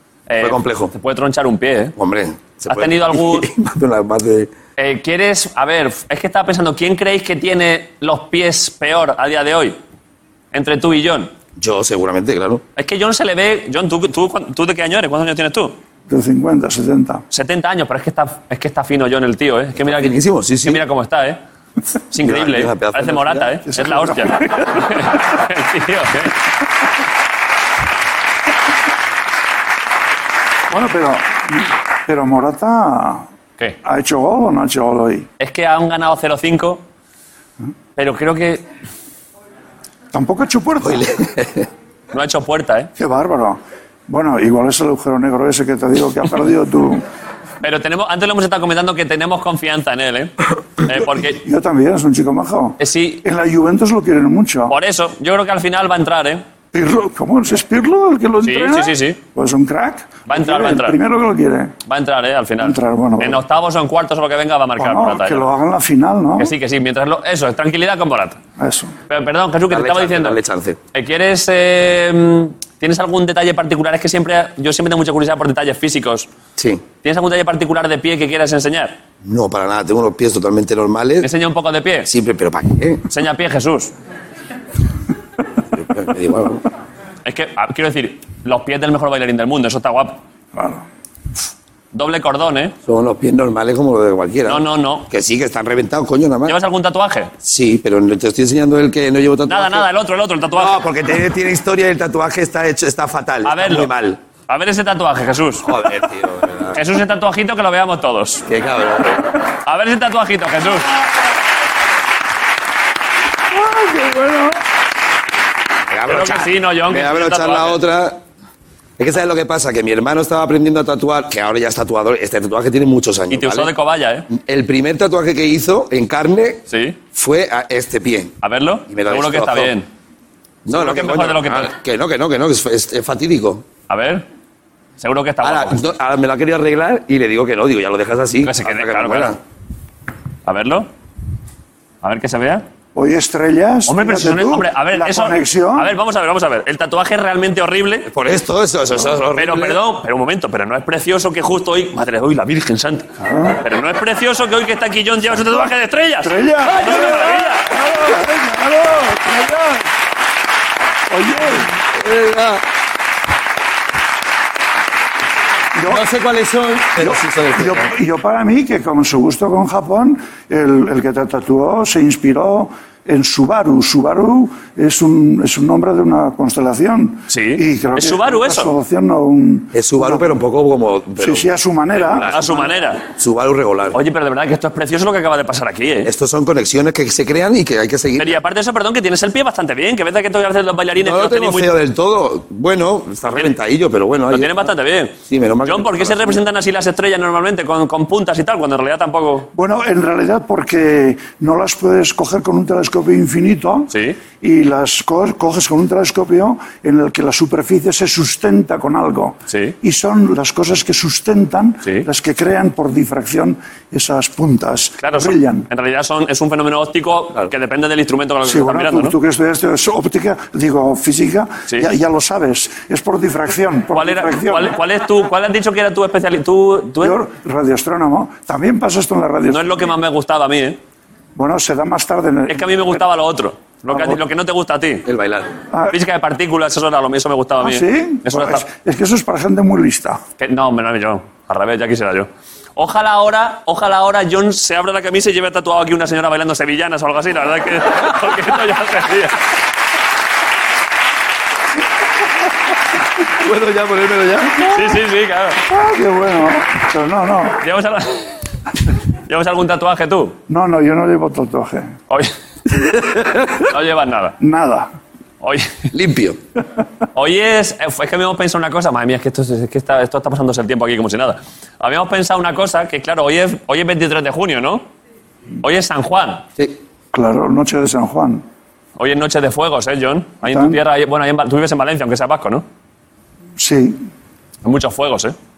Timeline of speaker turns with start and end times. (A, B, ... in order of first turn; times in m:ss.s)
0:00.3-0:01.9 A
0:00.4-0:00.9 B
0:02.0-0:04.5 B
0:02.7-0:03.5 A
0:04.8-0:09.8 A
0:10.5-0:11.3 A
0:11.6-0:12.6 B
0:12.8-0:15.8 A
0:16.1-0:17.2 C
0:17.3-0:21.4 A
0:19.8-0:20.8 B
0:22.1-0:26.3 A
0:22.2-0:23.6 B
0:23.6-0:24.8 C
0:30.7-0:33.3 C
0:33.8-0:35.3 C
0:35.4-0:36.8 A
0:38.0-0:38.6 A
0:40.1-0:41.1 C
0:40.8-0:41.7 B
0:42.1-0:42.9 A
0:43.0-0:47.0 C
0:47.6-0:51.4 A
0:51.2-0:54.8 C
0:52.8-0:53.2 A
0:54.7-0:56.4 A
0:56.7-1:01.7 C
0:58.4-0:59.2 A
1:00.3-1:01.0 A
1:01.8-1:05.5 A
1:02.6-1:03.4 C
1:04.8-1:06.5 C
1:06.4-1:08.4 A
1:08.6-1:08.9 C
1:09.1-1:10.4 A
1:09.7-1:10.8 B
1:10.9-1:16.3 A
1:16.6-1:16.8 B
1:17.0-1:19.0 A
1:19.2-1:21.3 B
1:21.2-1:22.1 A
1:22.0-1:23.0 B
1:23.1-1:23.9 A
1:25.7-1:26.6 B
1:27.2-1:30.2 A
1:30.5-1:30.8 C
1:31.9-1:32.7 A
1:32.8-1:36.6 B
1:34.4-1:35.1 A
1:36.4-1:37.3 A
1:37.4-1:39.9 B
1:39.5-1:40.8 A
1:40.5-1:44.2 B
1:43.4-1:43.9 A
1:44.5-1:45.7 A
1:45.6-1:46.8 B
1:46.7-1:48.4 A
1:48.4-1:49.3 B
1:49.6-1:50.9 A
1:53.5-1:54.6 B
1:55.9-1:58.2 B
1:56.1-1:57.8 A
1:59.0-2:03.7 B
2:03.3-2:04.3 A
2:04.3-2:08.3 B
2:06.7-2:07.0 A
2:08.4-2:09.9 A
2:08.9-2:09.7 B
2:10.6-2:13.6 B
2:10.7-2:11.7 A
2:13.9-2:14.2 A
2:15.0-2:15.8 A
2:15.4-2:19.4 B
2:18.4-2:19.4 A
2:20.4-2:20.9 A
2:22.0-2:22.6 A
2:22.9-2:25.9 C
2:23.9-2:28.1 A
2:28.1-2:29.8 B
2:29.3-2:33.1 A
2:33.2-2:33.6 C
2:33.6-2:37.7 A
2:36.2-2:39.8 C
2:41.1-2:41.7 C
2:41.8-2:42.6 B
2:45.7-2:46.0 C
2:45.8-2:47.9 B
2:47.0-3:00.3 C
2:57.3-2:58.7 A
2:59.7-3:04.0 B
3:01.2-3:02.6 C
3:02.1-3:03.0 A
3:03.9-3:06.1 A
3:06.0-3:08.4 B
3:08.2-3:11.7 A
3:11.0-3:14.5 B
3:14.3-3:19.5 A
3:15.3-3:16.4 B
3:19.5-3:35.7 C
3:23.9-3:24.2 A
3:29.5-3:29.8 A
3:35.0-3:39.2 A
3:38.4-3:44.8 C
3:43.9-3:47.2 A
3:47.0-3:49.9 C
3:49.5-3:50.8 A
3:51.4-3:53.0 C
3:52.5-3:55.0 A
3:53.9-3:54.2 C
3:55.0-3:55.5 B
3:55.9-3:58.6 A
3:57.6-4:00.2 C
4:00.4-4:09.4 A
4:13.3-4:14.7 B
4:14.6-4:15.6 A
4:15.7-4:17.6 C
4:17.6-4:18.3 A
4:19.3-4:20.4 A
4:20.5-4:21.9 C
4:22.8-4:23.6 B
4:23.7-4:24.4 A
4:24.4-4:24.9 C
4:25.4-4:25.8 A
4:25.9-4:26.4 B
4:27.1-4:34.8 A
4:35.6-4:36.4 A
4:37.1-4:38.4 C
4:39.0-4:42.6 A
4:40.4-4:40.8 C
4:43.6-4:44.0 C
4:44.6-4:45.3 A